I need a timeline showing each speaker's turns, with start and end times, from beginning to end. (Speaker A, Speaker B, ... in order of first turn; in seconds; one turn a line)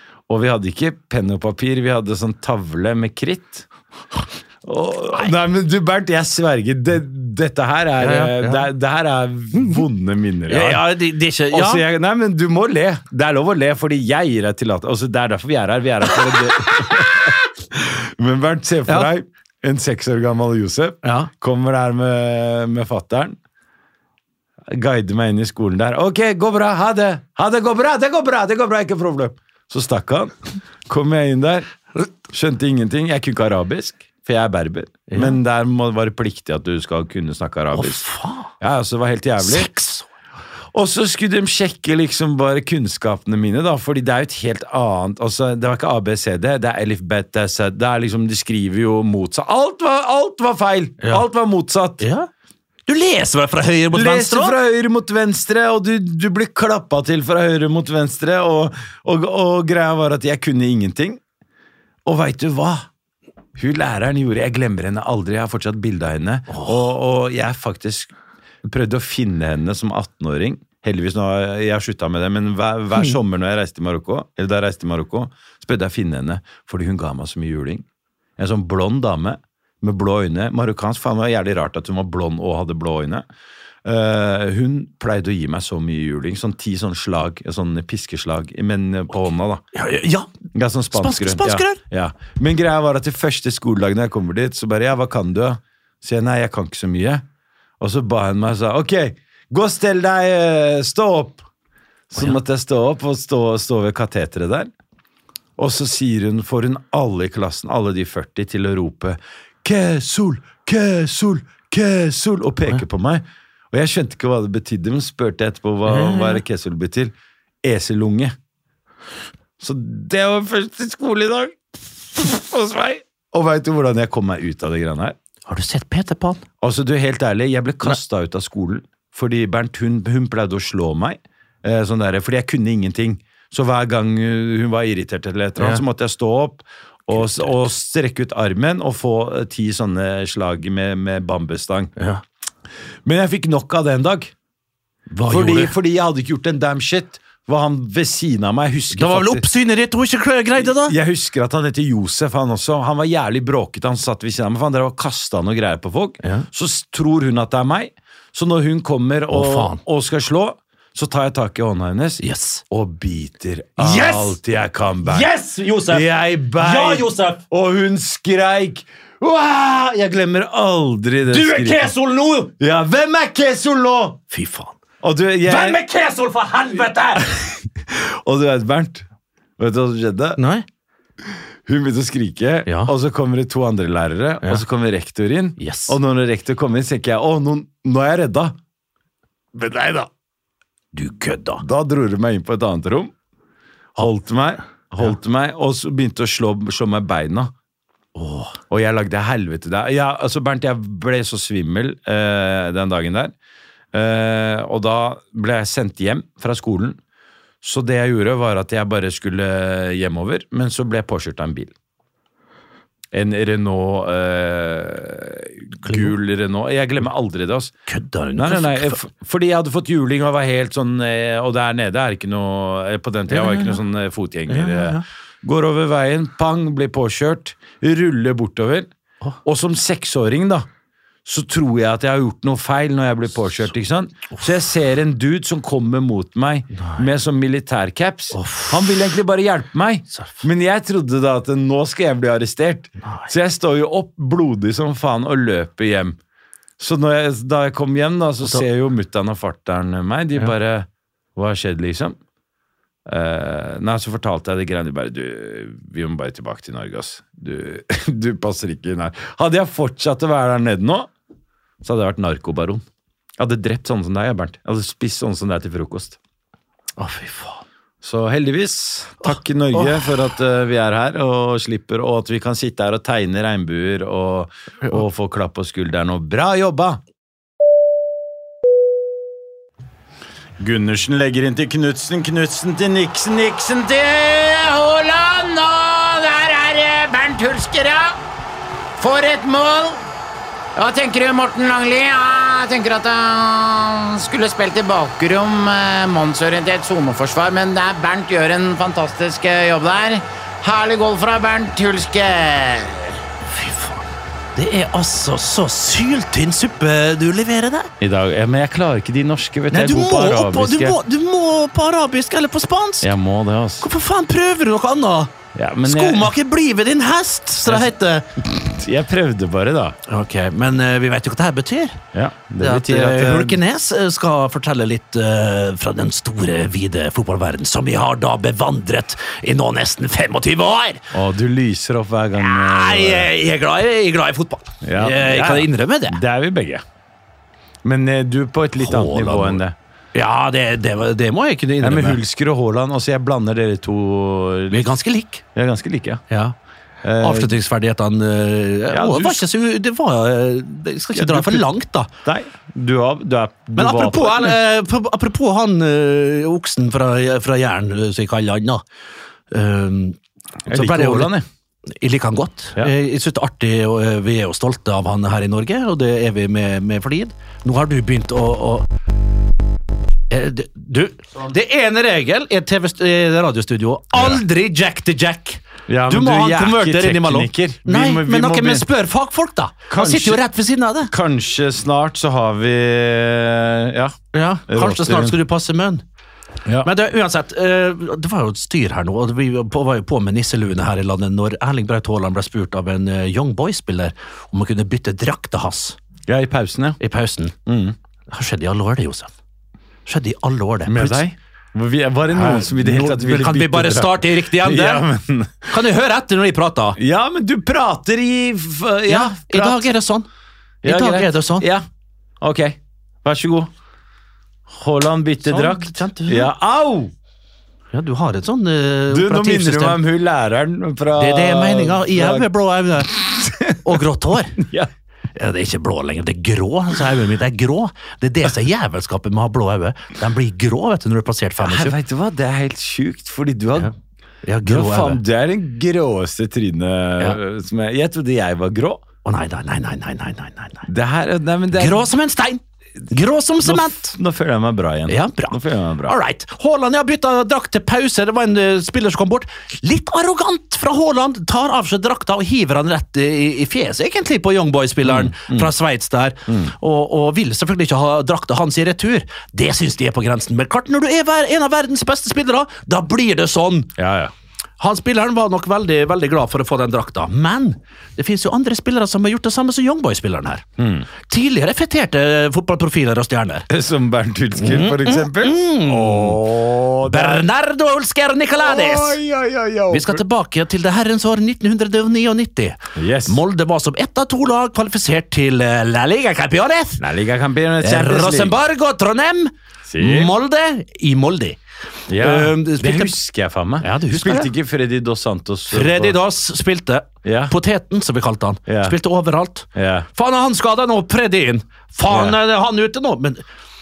Speaker A: 0.3-3.7
Speaker A: 4.6-10.9
Speaker B: 8.0-8.7
Speaker B: 10.5-11.8
Speaker A: 11.5-23.4
Speaker B: 21.0-21.3
Speaker A: 24.7-30.3
Speaker A: 30.9-31.7
Speaker A: 32.3-38.0
Speaker B: 35.1-35.4
Speaker B: 37.7-38.5
Speaker A: 38.6-39.7
Speaker B: 39.4-40.1
Speaker A: 40.7-52.0
Speaker B: 52.0-52.3
Speaker B: 52.9-54.5
Speaker A: 53.9-61.2
Speaker A: 62.0-62.9
Speaker A: 63.5-68.1
Speaker B: 66.5-66.8
Speaker A: 68.6-77.8
Speaker A: 78.4-83.2
Speaker A: 83.8-89.6
Speaker B: 89.7-90.3
Speaker A: 90.5-97.2
Speaker B: 90.9-91.8
Speaker A: 97.8-101.4
Speaker A: 102.1-104.7
Speaker A: 105.6-118.3
Speaker B: 115.9-116.4
Speaker A: 119.6-121.6
Speaker A: 122.1-125.2
Speaker B: 125.5-126.4
Speaker A: 126.6-141.9
Speaker B: 135.6-135.8
Speaker B: 137.1-137.7
Speaker B: 142.0-142.2
Speaker A: 143.0-144.3
Speaker B: 145.1-145.7
Speaker A: 145.3-149.4
Speaker B: 148.9-150.9
Speaker A: 150.6-165.3
Speaker B: 159.3-159.8
Speaker B: 162.2-162.6
Speaker B: 163.8-164.3
Speaker B: 165.0-167.4
Speaker A: 165.8-171.9
Speaker B: 171.3-172.5
Speaker A: 172.6-174.2
Speaker B: 174.3-174.8
Speaker A: 175.0-175.8
Speaker B: 175.4-177.2
Speaker A: 177.2-179.0
Speaker A: 179.6-180.4
Speaker B: 180.4-180.6
Speaker A: 181.7-188.6
Speaker B: 182.7-182.9
Speaker B: 185.6-186.0
Speaker A: 189.5-190.1
Speaker B: 190.9-191.6
Speaker A: 191.6-193.1
Speaker A: 194.0-197.5
Speaker B: 198.2-198.6
Speaker A: 198.7-203.3
Speaker A: 203.9-207.0
Speaker A: 207.6-211.7
Speaker A: 213.1-217.7
Speaker B: 215.8-216.1
Speaker B: 217.9-219.0
Speaker A: 218.4-228.9
Speaker B: 223.3-223.8
Speaker B: 224.5-225.0
Speaker A: 229.4-230.7
Speaker A: 231.2-246.2
Speaker B: 236.7-237.1
Speaker B: 238.3-239.0
Speaker B: 240.1-240.4
Speaker B: 243.0-243.3
Speaker A: 246.8-252.2
Speaker A: 253.1-261.1
Speaker A: 261.8-262.8
Speaker A: 263.4-266.2
Speaker B: 267.0-267.6
Speaker A: 268.0-277.0
Speaker B: 269.2-270.1
Speaker A: 280.6-283.5
Speaker C: 283.4-288.1
Speaker C: 289.0-290.0
Speaker C: 290.8-303.2
Speaker B: 303.4-307.9
Speaker A: 308.0-311.0
Speaker B: 309.7-313.1
Speaker A: 313.0-313.9
Speaker B: 313.8-315.3
Speaker A: 315.5-316.3
Speaker B: 315.9-318.2
Speaker A: 318.4-320.0
Speaker B: 320.1-322.0
Speaker A: 322.1-323.6
Speaker B: 322.6-331.1
Speaker A: 331.1-333.3
Speaker B: 332.4-336.2
Speaker A: 334.8-336.8
Speaker A: 337.8-339.8
Speaker B: 338.8-339.6
Speaker B: 340.1-342.2
Speaker A: 341.8-344.9
Speaker B: 344.7-345.4
Speaker A: 345.5-346.2
Speaker B: 346.3-346.5
Speaker A: 347.0-347.5
Speaker B: 347.2-352.1
Speaker A: 348.9-349.4
Speaker A: 351.1-351.6
Speaker A: 352.2-354.6
Speaker B: 353.8-358.8
Speaker B: 359.5-361.3
Speaker A: 360.7-361.4
Speaker B: 361.9-368.9
Speaker B: 370.3-381.1
Speaker A: 374.1-374.4
Speaker A: 375.9-378.9
Speaker A: 379.9-380.4
Speaker A: 381.1-385.4
Speaker B: 384.3-386.0
Speaker B: 386.8-396.0
Speaker A: 396.3-397.0
Speaker B: 397.0-397.5
Speaker A: 397.6-397.9
Speaker B: 398.3-399.3
Speaker B: 400.1-401.2
Speaker A: 400.9-405.8
Speaker B: 402.3-405.0
Speaker B: 405.7-407.0
Speaker A: 407.0-409.9
Speaker B: 409.1-410.3
Speaker A: 410.8-411.8
Speaker B: 410.8-411.7
Speaker A: 412.4-413.7
Speaker A: 414.7-417.1
Speaker B: 415.4-416.5
Speaker B: 417.9-420.0
Speaker A: 419.1-422.5
Speaker B: 421.2-424.6
Speaker A: 423.3-424.0
Speaker A: 424.6-424.9
Speaker B: 425.4-431.9
Speaker A: 431.6-433.9
Speaker B: 434.4-435.2
Speaker A: 434.6-439.0
Speaker B: 439.2-440.9
Speaker A: 440.9-442.1
Speaker B: 441.7-444.1
Speaker A: 443.6-446.1
Speaker B: 445.1-463.9
Speaker A: 455.0-455.7
Speaker A: 456.5-456.7
Speaker A: 464.0-464.3
Speaker B: 464.8-470.6
Speaker A: 470.8-471.1
Speaker B: 471.3-473.7
Speaker A: 473.7-477.4
Speaker B: 474.6-476.4
Speaker B: 477.0-479.2
Speaker A: 478.6-480.2
Speaker B: 479.9-487.0
Speaker A: 482.9-483.4
Speaker A: 487.0-488.6
Speaker B: 487.8-491.6
Speaker A: 489.9-490.3
Speaker A: 492.1-496.2
Speaker B: 492.1-493.1
Speaker B: 493.8-494.5
Speaker B: 495.7-503.4
Speaker A: 497.2-497.5
Speaker A: 498.7-499.0
Speaker A: 499.7-500.1
Speaker A: 502.1-502.4